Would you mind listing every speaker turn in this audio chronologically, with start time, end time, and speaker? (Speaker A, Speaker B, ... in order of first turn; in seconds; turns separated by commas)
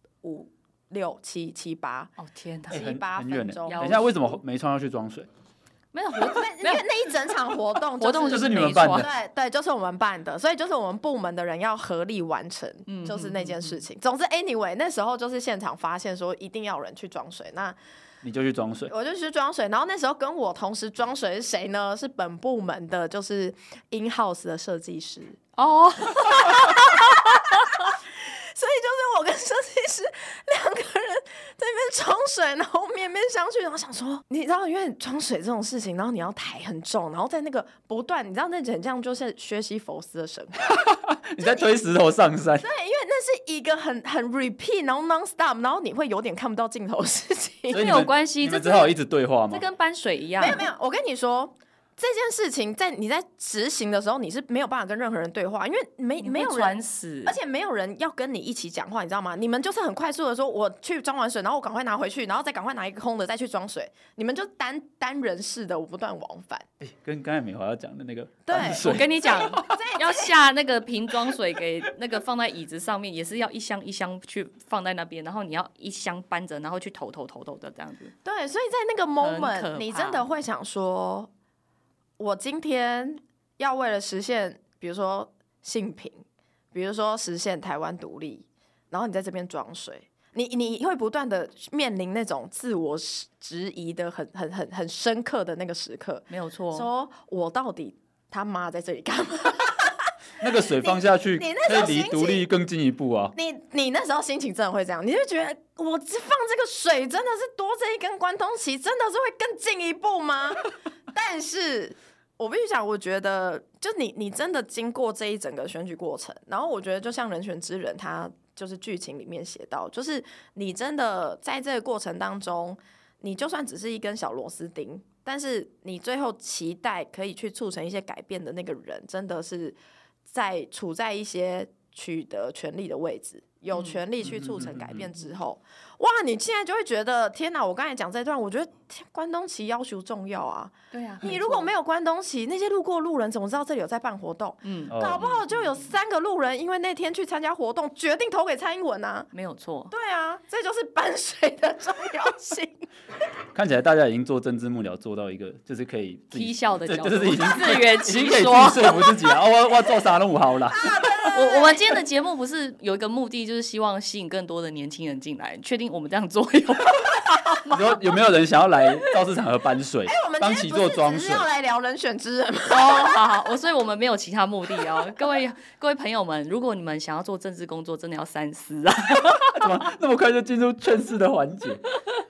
Speaker A: 0.2-2.1, Speaker B: 2.2-2.9, Speaker A: 2.7-4.0, Speaker C: 2.7-5.3, Speaker B: 3.7-4.0, Speaker B: 5.9-6.8, Speaker A: 6.2-17.8, Speaker B: 8.0-9.1, Speaker C: 8.3-9.1, Speaker B: 12.9-13.8, Speaker C: 18.2-18.9, Speaker A: 18.9-25.4, Speaker B: 25.6-27.9, Speaker A: 26.1-40.7, Speaker C: 40.6-42.7, Speaker A: 41.4-41.8, Speaker A: 42.6-47.9, Speaker B: 47.7-49.0, Speaker C: 47.7-49.6, Speaker B: 49.5-50.6, Speaker A: 50.4-66.7, Speaker B: 56.2-57.4, Speaker C: 66.8-69.8, Speaker A: 68.5-70.3, Speaker B: 68.5-78.1, Speaker A: 78.2-81.3, Speaker B: 79.2-80.3, Speaker A: 82.2-102.5, Speaker B: 96.3-96.9, Speaker C: 100.4-103.3, Speaker A: 103.3-149.3, Speaker B: 133.7-134.0, Speaker C: 134.2-135.1, Speaker B: 140.9-141.7, Speaker B: 144.6-145.9, Speaker C: 144.9-145.3, Speaker B: 149.3-149.9, Speaker A: 149.9-152.9, Speaker C: 153.5-161.1, Speaker B: 156.3-159.1, Speaker A: 160.7-162.0, Speaker B: 161.3-167.9, Speaker C: 167.7-171.5, Speaker A: 170.1-173.2, Speaker B: 172.7-179.9, Speaker C: 179.3-181.8